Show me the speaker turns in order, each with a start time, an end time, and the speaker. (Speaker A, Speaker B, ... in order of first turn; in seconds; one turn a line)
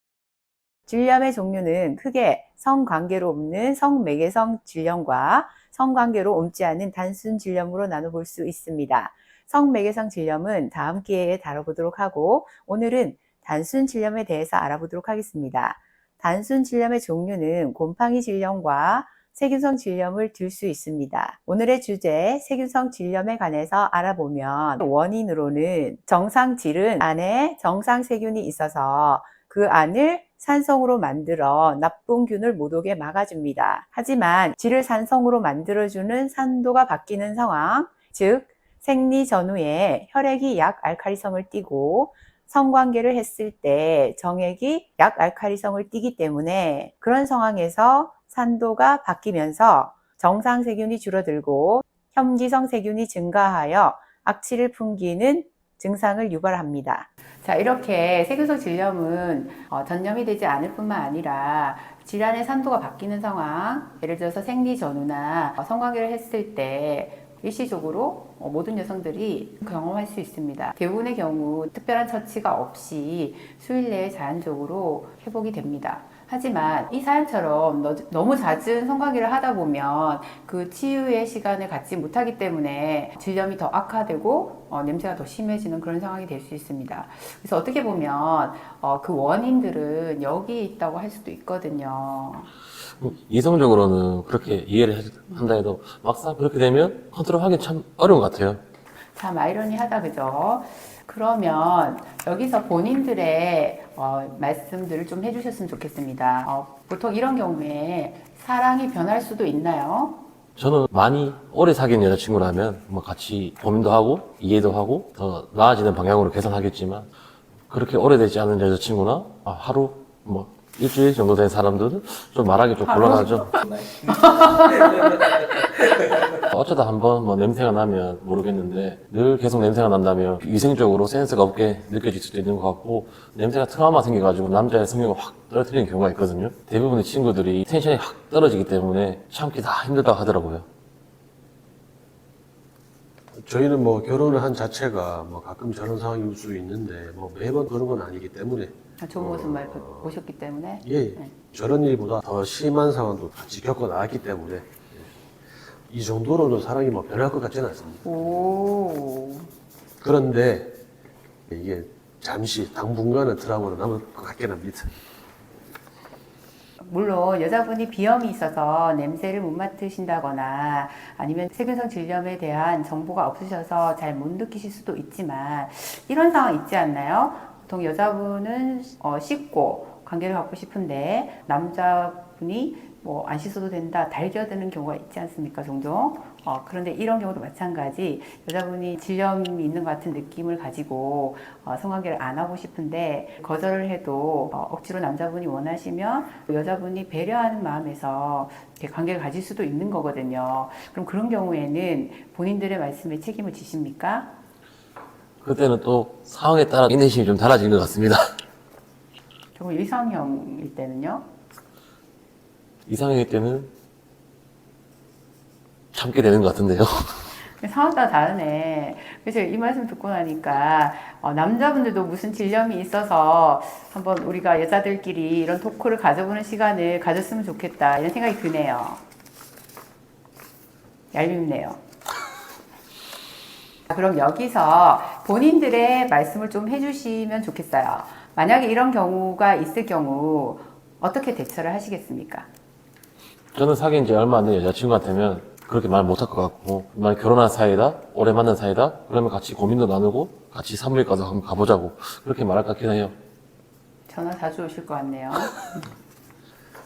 Speaker A: 0.9-92.5
Speaker B: 93.0-98.6
Speaker A: 99.1-110.2
Speaker B: 110.5-117.1
Speaker B: 117.7-123.5
Speaker B: 126.4-140.7
Speaker C: 143.3-150.1
Speaker A: 149.0-151.3
Speaker C: 150.8-155.1
Speaker C: 155.9-158.0
Speaker A: 158.0-159.5
Speaker C: 160.0-160.8
Speaker C: 161.5-164.9
Speaker A: 166.8-204.3
Speaker B: 205.4-208.2
Speaker A: 209.5-211.3
Speaker B: 212.8-213.7
Speaker B: 215.9-217.3
Speaker A: 217.6-229.0
Speaker A: 231.1-231.8
Speaker A: 233.9-242.5
Speaker B: 243.5-253.1
Speaker A: 254.1-255.8